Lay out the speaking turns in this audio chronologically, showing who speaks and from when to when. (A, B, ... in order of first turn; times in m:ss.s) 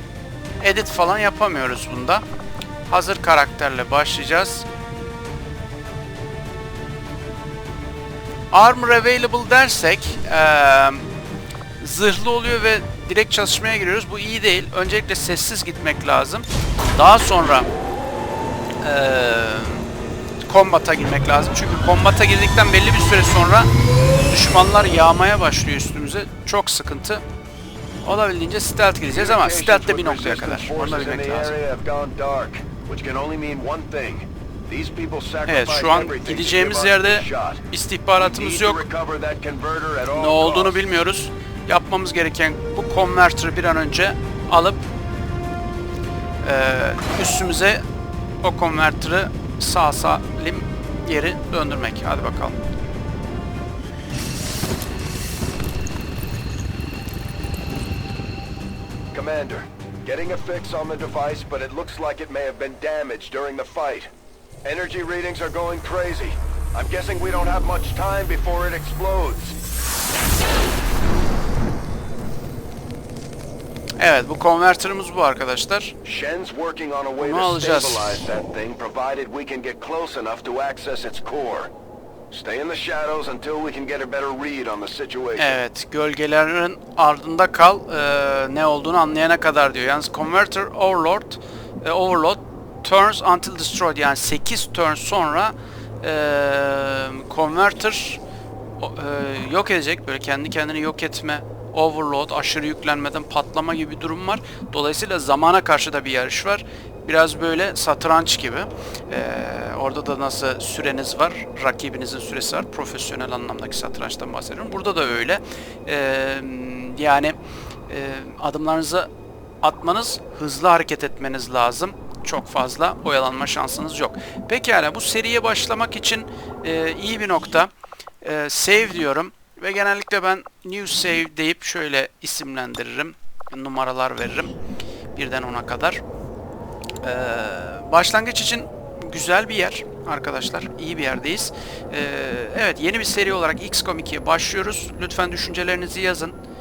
0:00.6-0:02.2 A
0:02.9-0:04.6 A
0:08.5-0:11.1 A
0:11.8-0:17.7 A
0:18.8-0:19.9 A
0:20.4-0:23.7 A
0:24.2-0:27.2 A
0:28.0-0:31.6 A
0:29.0-0:37.6 B
0:35.4-0:38.9 A
0:38.2-0:40.8 B
0:40.1-0:44.8 A
0:46.4-0:47.8 A
0:48.4-0:52.6 A
0:59.1-1:04.1 B
1:04.6-1:09.6 B
1:14.0-1:15.9 A
1:16.0-1:21.7 B
1:17.2-1:18.2 A
1:22.3-1:25.6 B
1:25.4-1:38.2 A
1:38.8-1:57.4 A
1:57.9-1:59.1 A
1:59.6-2:07.7 A
2:08.2-2:14.5 A
2:15.1-2:16.0 A
2:17.0-2:26.4 A